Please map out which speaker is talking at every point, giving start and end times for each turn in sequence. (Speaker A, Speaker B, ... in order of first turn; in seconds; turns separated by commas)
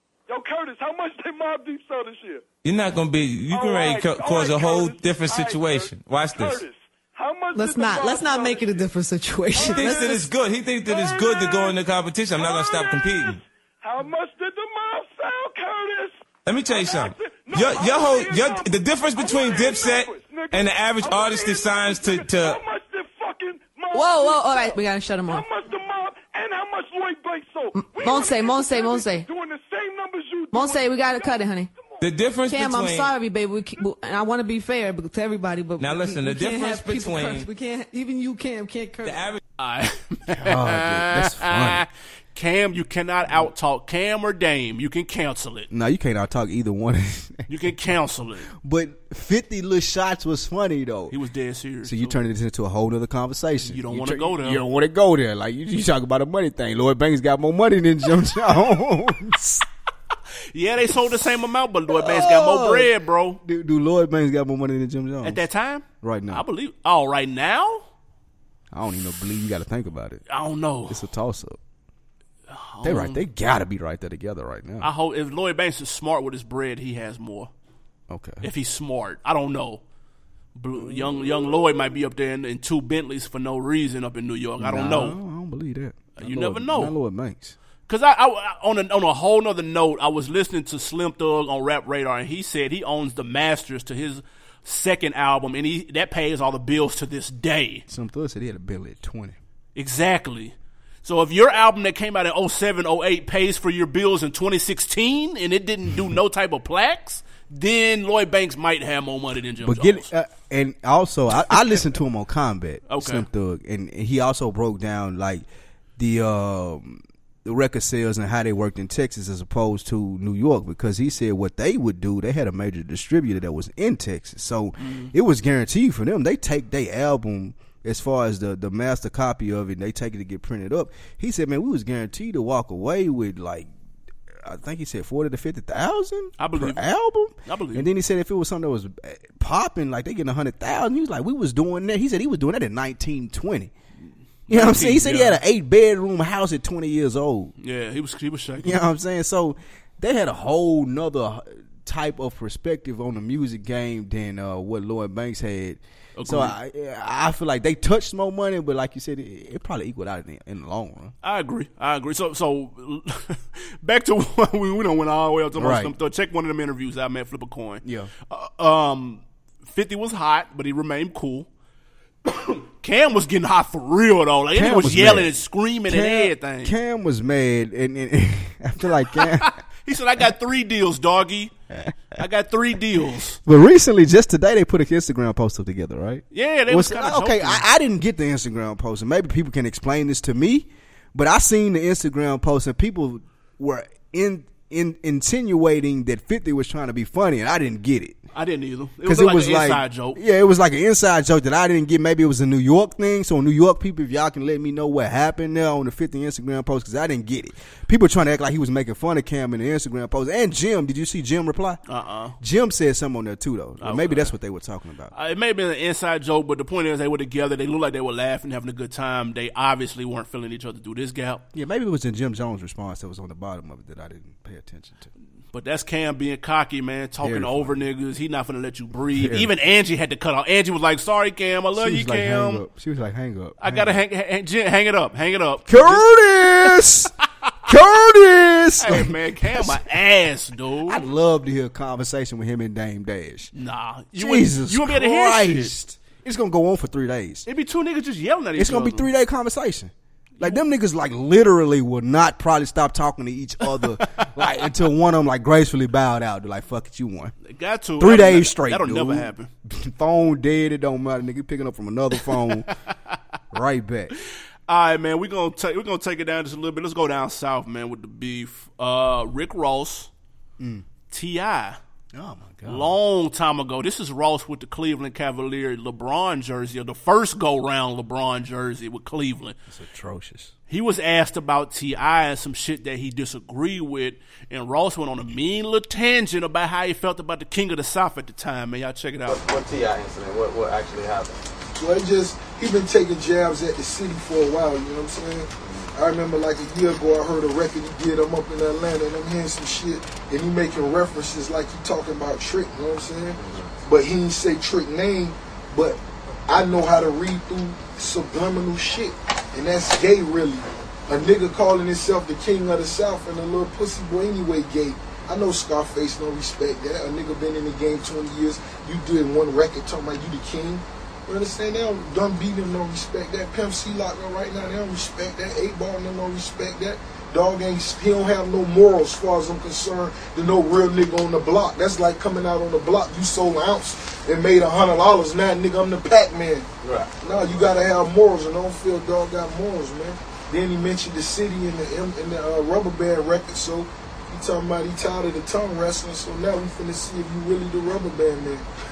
Speaker A: 0.3-2.4, Speaker B: 2.6-6.6, Speaker A: 3.5-8.9, Speaker C: 7.5-10.2, Speaker A: 9.5-11.8, Speaker B: 9.6-13.4, Speaker A: 12.3-32.1, Speaker B: 16.4-22.6, Speaker C: 23.9-25.4, Speaker C: 27.7-29.3, Speaker C: 30.5-31.7, Speaker B: 32.0-33.1, Speaker C: 32.5-39.3, Speaker B: 35.8-37.5, Speaker B: 39.0-39.4, Speaker D: 39.6-45.7, Speaker E: 40.4-41.8, Speaker E: 45.7-47.5, Speaker D: 47.5-48.5, Speaker E: 48.5-51.1, Speaker D: 51.1-52.2, Speaker E: 51.8-59.6, Speaker D: 53.6-54.6, Speaker D: 60.5-63.4, Speaker E: 61.9-65.4, Speaker D: 65.2-67.8, Speaker E: 66.0-66.4, Speaker E: 68.7-70.2, Speaker D: 70.3-71.0, Speaker E: 70.9-71.6, Speaker D: 72.5-73.2, Speaker E: 72.8-74.9, Speaker D: 74.8-77.5, Speaker E: 78.1-78.5, Speaker D: 78.4-79.8, Speaker D: 80.5-85.2, Speaker E: 80.7-81.8, Speaker E: 84.6-87.5, Speaker D: 86.2-86.9, Speaker D: 87.9-97.8, Speaker E: 97.9-99.4, Speaker D: 99.7-110.1, Speaker E: 109.6-115.4, Speaker D: 112.9-113.2, Speaker E: 116.0-133.7, Speaker D: 124.8-125.1, Speaker E: 134.4-143.7, Speaker D: 136.4-136.9, Speaker D: 137.4-137.9, Speaker D: 144.5-145.4, Speaker E: 144.5-147.5, Speaker D: 147.6-148.8, Speaker E: 148.6-161.1, Speaker D: 156.2-156.5, Speaker D: 161.2-171.5, Speaker E: 165.5-165.9, Speaker E: 167.8-168.1, Speaker D: 172.8-176.7, Speaker E: 174.5-179.6, Speaker D: 179.1-181.5, Speaker D: 182.2-183.4, Speaker E: 183.4-198.2, Speaker D: 186.3-187.6, Speaker D: 198.3-200.2, Speaker E: 199.0-211.8, Speaker D: 211.9-212.4, Speaker E: 212.4-215.1, Speaker D: 213.8-214.3, Speaker D: 215.1-221.4, Speaker E: 221.5-225.1, Speaker D: 225.5-232.6, Speaker E: 227.2-227.8, Speaker E: 229.1-229.5, Speaker E: 231.7-234.0, Speaker D: 233.6-236.1, Speaker E: 235.7-237.1, Speaker E: 237.7-239.8, Speaker D: 238.8-241.0, Speaker E: 240.8-243.5, Speaker D: 243.5-245.7, Speaker E: 244.2-247.5, Speaker D: 247.4-249.1, Speaker E: 248.6-257.3, Speaker D: 253.8-254.4, Speaker D: 257.4-259.5, Speaker E: 258.0-262.7, Speaker D: 262.2-262.5, Speaker E: 263.5-264.1, Speaker D: 264.7-270.1, Speaker E: 270.6-270.8, Speaker D: 271.1-271.8, Speaker E: 272.1-272.9, Speaker D: 272.6-279.6, Speaker E: 279.7-280.5, Speaker D: 280.7-289.4, Speaker F: 289.3-291.4, Speaker G: 291.8-336.7, Speaker F: 295.6-295.9, Speaker F: 303.4-303.7, Speaker F: 336.8-337.1, Speaker G: 337.2-348.6